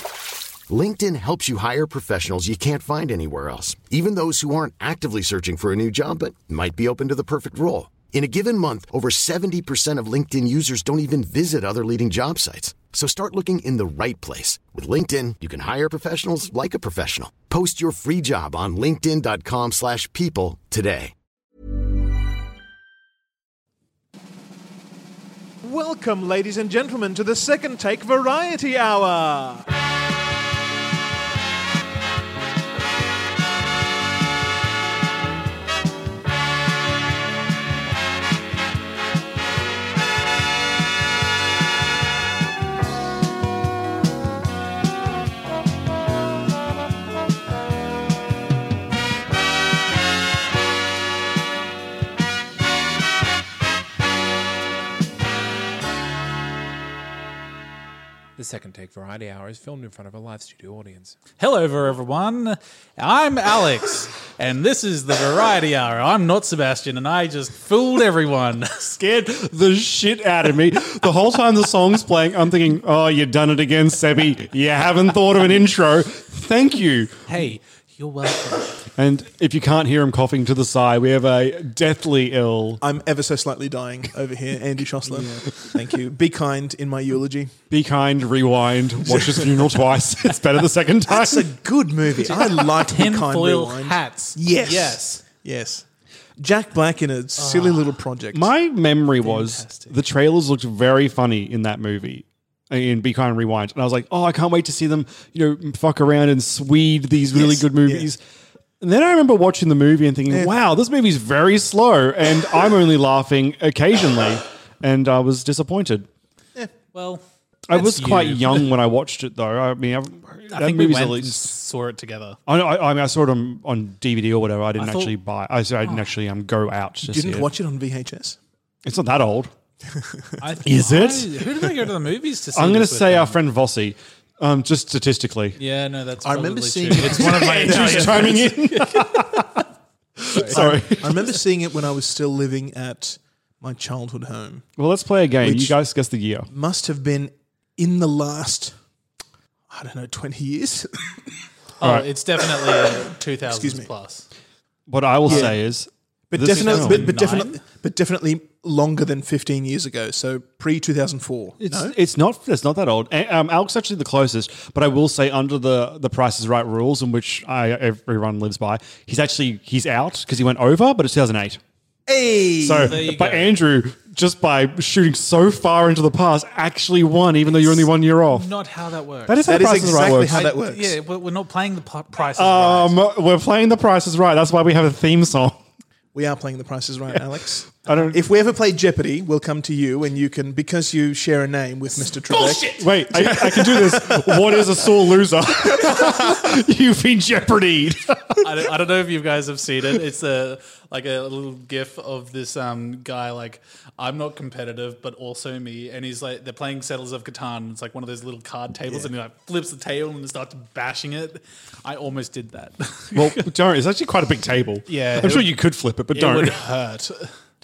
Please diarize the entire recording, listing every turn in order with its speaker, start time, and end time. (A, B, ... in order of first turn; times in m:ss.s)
0:00.7-0:21.1 A
0:25.6-0:29.7 B
0:58.4-1:01.2 C
1:01.4-1:09.0 D
1:09.0-1:17.4 E
1:17.3-1:18.8 D
1:19.0-1:22.8 E
1:22.8-1:27.5 B
1:25.1-1:25.5 D
1:27.7-1:31.5 E
1:29.1-1:29.4 B
1:31.1-1:35.8 B
1:32.2-1:35.2 D
1:36.4-1:38.5 B
1:37.4-1:37.9 D
1:38.3-1:48.2 E
1:39.2-1:40.0 D
1:47.3-1:48.1 B
1:48.8-1:56.1 E
1:56.9-1:58.7 D
1:57.7-2:01.5 E
2:00.5-2:02.4 D
2:02.5-2:07.5 E
2:04.8-2:05.1 D
2:05.8-2:06.1 D
2:07.0-2:08.4 B
2:08.8-2:09.5 E
2:09.9-2:10.4 B
2:10.4-2:13.4 D
2:10.6-2:11.5 E
2:12.5-2:15.6 E
2:15.6-2:19.6 D
2:16.2-2:18.5 B
2:16.9-2:19.6 E
2:20.2-2:21.3 E
2:20.3-2:20.6 D
2:20.5-2:24.6 B
2:24.8-2:26.5 E
2:25.4-2:25.7 B
2:26.5-2:28.7 B
2:29.7-2:31.1 B
2:31.8-2:34.2 D
2:31.8-2:32.1 E
2:33.4-2:33.9 B
2:34.9-2:37.2 E
2:35.2-2:35.6 B
2:36.3-2:41.9 B
2:36.6-2:37.6 D
2:41.6-2:51.6 E
2:52.1-2:53.0 B
2:52.6-2:58.5 E
2:52.8-2:53.6 D
2:57.4-3:03.0 D
2:59.3-3:00.5 E
2:59.5-3:00.9 B
3:02.3-3:05.6 E
3:06.1-3:13.7 B
3:07.8-3:08.2 E
3:07.9-3:08.1 D
3:12.3-3:12.7 D
3:12.4-3:18.6 E
3:18.4-3:33.4 D
3:33.1-3:36.6 E
3:34.9-3:35.5 D
3:36.1-3:37.3 D